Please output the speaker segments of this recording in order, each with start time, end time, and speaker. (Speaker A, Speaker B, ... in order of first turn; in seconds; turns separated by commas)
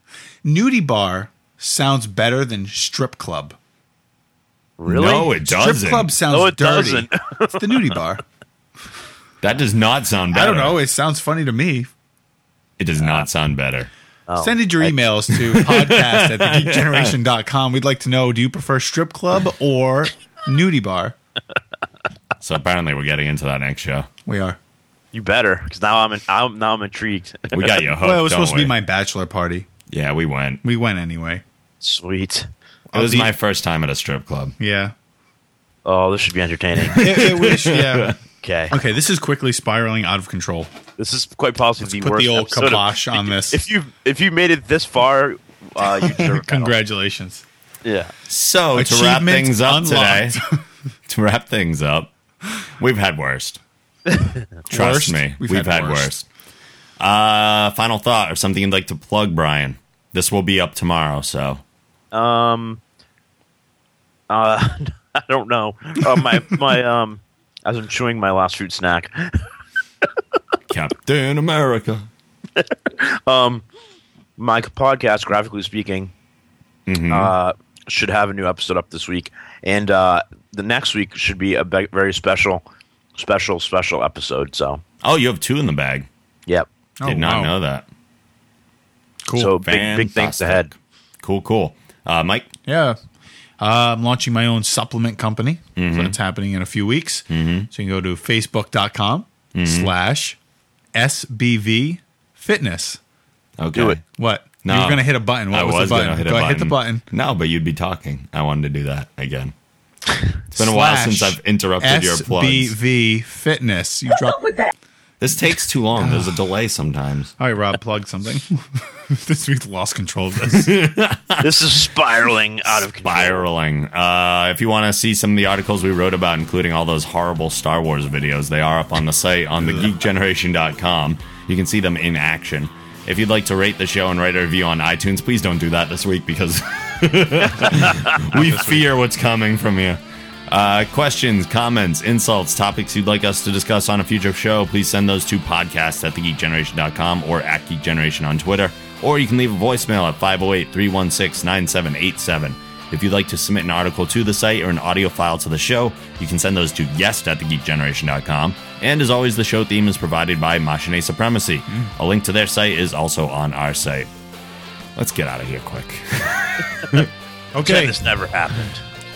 Speaker A: 0.4-3.6, Speaker B: 4.8-5.3, Speaker C: 4.9-6.1, Speaker A: 5.3-8.2, Speaker B: 6.3-8.0, Speaker C: 9.4-10.8, Speaker A: 10.3-11.9, Speaker C: 12.8-13.9, Speaker B: 14.3-14.9, Speaker A: 14.4-21.1, Speaker C: 15.4-17.1, Speaker C: 22.4-24.1, Speaker A: 24.2-24.6, Speaker B: 25.1-27.7, Speaker C: 27.5-28.7, Speaker A: 28.0-29.7, Speaker C: 29.9-30.6, Speaker A: 30.6-31.4, Speaker B: 31.8-32.5, Speaker A: 32.9-33.3, Speaker C: 32.9-34.5, Speaker A: 34.6-34.9, Speaker B: 35.8-37.0, Speaker C: 36.9-38.2, Speaker A: 37.0-38.1, Speaker B: 38.4-38.8, Speaker A: 38.7-40.7, Speaker B: 41.0-46.8, Speaker A: 41.8-43.6, Speaker A: 45.8-47.4, Speaker B: 47.8-48.1, Speaker C: 48.3-50.4, Speaker A: 48.7-50.6, Speaker C: 51.1-52.1, Speaker C: 52.8-53.6, Speaker B: 54.1-54.4, Speaker A: 54.7-56.1, Speaker C: 54.7-56.2, Speaker C: 57.0-61.6, Speaker B: 62.1-62.8, Speaker B: 64.3-69.5, Speaker C: 70.7-72.1, Speaker B: 72.6-73.6, Speaker B: 74.4-76.1, Speaker C: 76.9-77.3, Speaker B: 77.1-82.6, Speaker B: 83.2-84.8, Speaker C: 85.0-86.1, Speaker A: 87.0-87.5, Speaker C: 87.0-87.8, Speaker A: 89.2-89.5, Speaker B: 89.3-90.7, Speaker C: 89.6-92.5, Speaker A: 92.7-93.0, Speaker A: 93.6-100.4, Speaker C: 95.8-96.2, Speaker C: 97.3-97.7, Speaker C: 99.5-99.9, Speaker A: 100.9-103.0, Speaker C: 103.6-104.0, Speaker B: 103.7-104.0, Speaker A: 104.2-107.0, Speaker C: 104.6-109.5, Speaker A: 110.5-114.7, Speaker C: 110.5-112.8, Speaker C: 115.2-117.3, Speaker A: 116.0-116.3, Speaker A: 117.4-120.8, Speaker C: 120.5-121.5, Speaker B: 121.4-123.5, Speaker C: 122.7-164.1, Speaker A: 129.6-129.9, Speaker C: 164.9-167.1, Speaker A: 167.5-168.0, Speaker B: 167.6-168.8